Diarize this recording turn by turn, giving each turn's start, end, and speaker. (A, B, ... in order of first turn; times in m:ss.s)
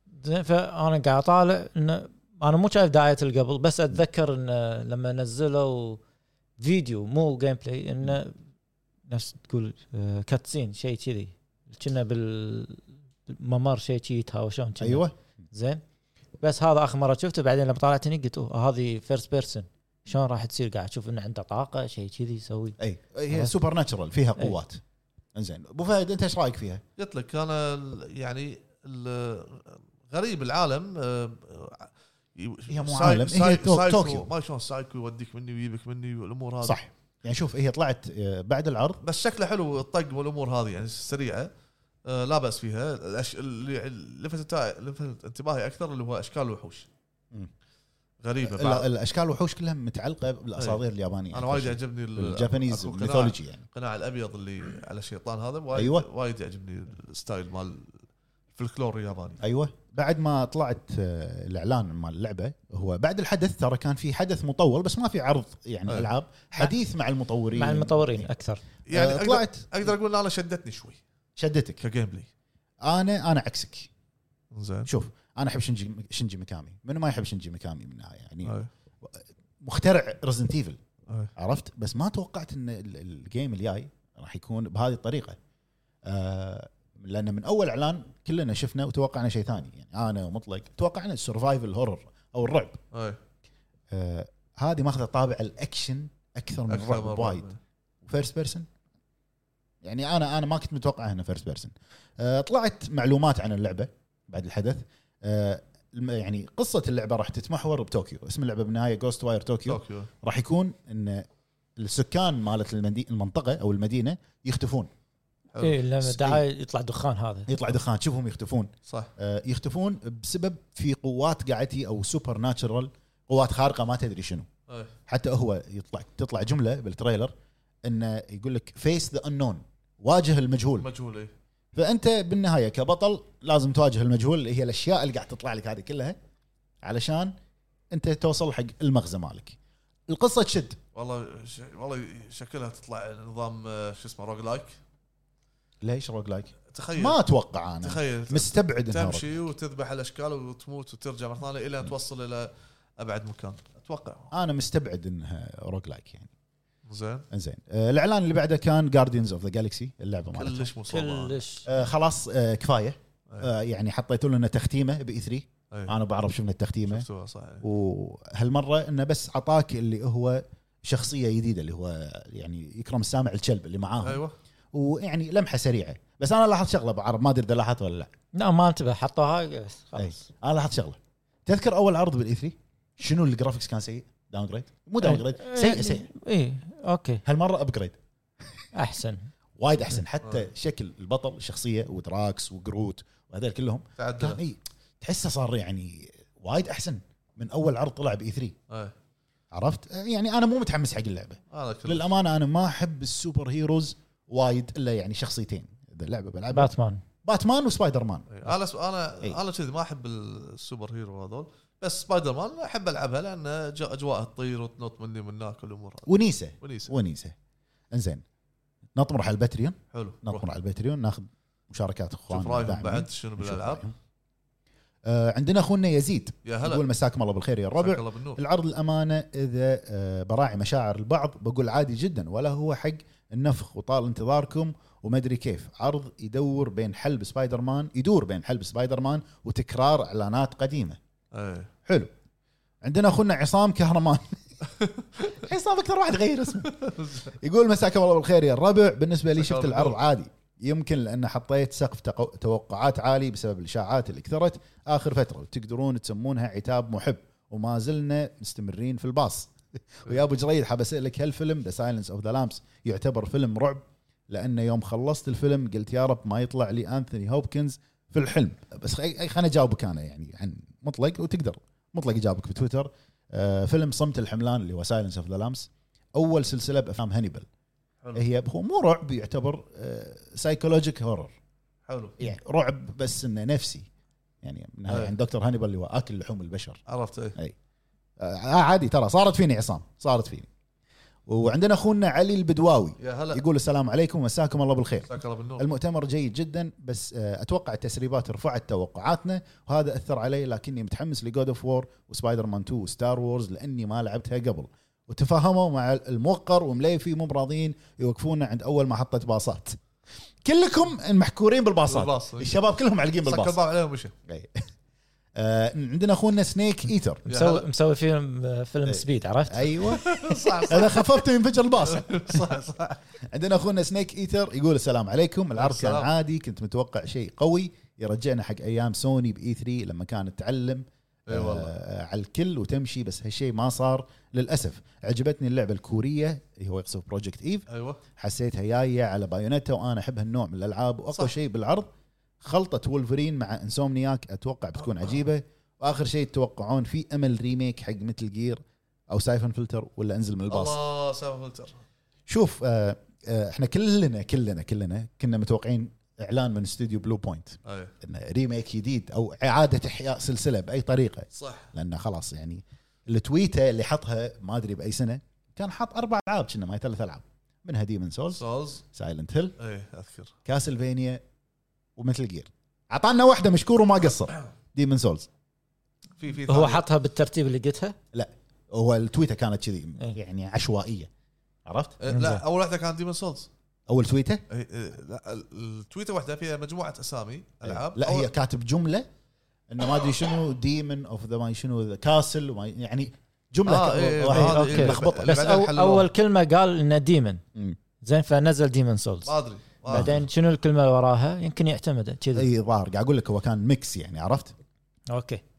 0:00.2-0:06.0 A
0:06.6-0:08.4 A
0:09.1-0:15.8 A
0:14.8-0:15.1 B
0:16.4-0:22.8 A
0:22.8-0:24.8 B
0:25.4-0:26.8 B
0:27.0-0:36.8 C
0:32.7-0:34.3 B
0:36.6-0:39.0 B
0:39.0-0:41.5 C
0:42.1-0:46.9 C
0:48.2-0:48.9 C
0:48.4-0:53.6 B
0:50.6-0:57.9 C
0:55.8-0:56.1 B
0:58.6-0:59.4 C
0:59.4-1:08.3 B
1:07.6-1:08.6 A
1:08.9-1:11.0 C
1:08.9-1:09.6 B
1:11.4-1:11.8 B
1:11.8-1:12.3 C
1:12.8-1:13.9 B
1:14.5-1:14.9 C
1:14.9-1:20.8 B
1:21.4-1:25.4 B
1:26.1-1:32.8 B
1:32.9-1:33.2 C
1:33.9-1:37.5 B
1:36.7-1:37.6 C
1:38.0-1:38.6 B
1:39.8-1:51.3 B
1:49.7-1:50.1 C
1:51.8-1:54.9 B
1:55.5-1:55.8 C
1:55.6-1:57.5 A
1:56.0-1:56.4 B
1:57.5-2:04.5 B
2:05.1-2:07.3 B
2:07.8-2:10.9 B
2:10.8-2:11.3 C
2:11.8-2:16.2 B
2:16.8-2:17.3 B
2:17.9-2:19.6 B
2:20.1-2:20.8 B
2:21.0-2:24.8 C
2:25.8-2:29.4 B
2:26.7-2:27.2 C
2:27.8-2:34.3 C
2:34.3-2:36.3 B
2:36.9-2:37.3 C
2:37.3-2:40.7 B
2:40.4-2:41.4 C
2:40.9-2:41.7 A
2:41.7-2:47.1 B
2:46.9-2:47.6 C
2:47.6-2:58.1 B
2:54.0-2:54.3 C
2:58.3-3:00.2 A
3:00.0-3:06.1 B
3:05.0-3:07.2 A
3:07.2-3:08.0 B
3:08.7-3:09.3 A
3:09.6-3:18.6 B
3:14.0-3:14.4 C
3:19.5-3:26.7 B
3:21.5-3:22.1 C
3:26.5-3:27.0 A
3:27.2-3:28.5 B
3:28.3-3:36.1 C
3:36.1-3:37.4 B
3:36.6-3:36.9 C
3:37.9-3:38.2 B
3:39.0-3:43.9 B
3:39.9-3:40.4 C
3:42.3-3:43.8 C
3:45.1-4:01.0 B
3:46.4-3:46.8 C
3:47.8-3:48.4 C
4:01.3-4:01.7 C
4:01.9-4:02.1 B
4:02.8-4:04.4 B
4:05.2-4:37.5 B
4:06.8-4:07.3 C
4:09.4-4:10.0 C
4:38.2-4:41.3 B
4:41.9-4:42.2 C
4:42.2-4:43.9 B
4:44.4-4:46.8 B
4:44.9-4:45.1 C
4:46.9-4:47.4 C
4:48.2-4:50.5 B
4:51.3-5:09.8 B
4:53.0-4:53.4 C
4:55.1-4:55.6 C
5:10.4-5:13.6 B
5:11.9-5:12.6 C
5:13.2-5:14.1 C
5:14.3-5:14.7 B
5:15.4-5:17.3 B
5:17.3-5:17.6 C
5:17.3-5:20.0 A
5:18.9-5:22.6 B
5:19.9-5:21.2 C
5:21.8-5:23.0 C
5:23.2-5:41.9 B
5:25.6-5:26.1 C
5:31.3-5:31.7 C
5:37.7-5:38.0 C
5:42.4-5:48.6 B
5:49.1-5:50.8 B
5:50.5-5:51.8 C
5:52.3-6:08.4 B
5:57.6-5:57.9 C
6:01.4-6:01.7 C
6:08.3-6:08.8 C
6:08.9-6:09.6 B
6:09.6-6:10.3 C
6:10.5-6:11.2 B
6:12.0-6:15.3 B
6:16.2-6:16.8 C
6:16.5-6:18.0 A
6:18.1-6:21.1 B
6:21.7-6:22.3 B
6:22.0-6:23.5 C
6:23.9-6:24.4 B
6:24.5-6:28.3 C
6:27.6-6:29.1 B
6:29.7-6:35.6 B
6:33.7-6:36.1 C
6:34.3-6:37.4 A
6:38.0-6:39.3 A
6:39.3-6:40.2 C
6:39.9-6:40.2 B
6:39.9-6:42.5 A
6:42.4-6:44.5 B
6:45.1-6:45.4 A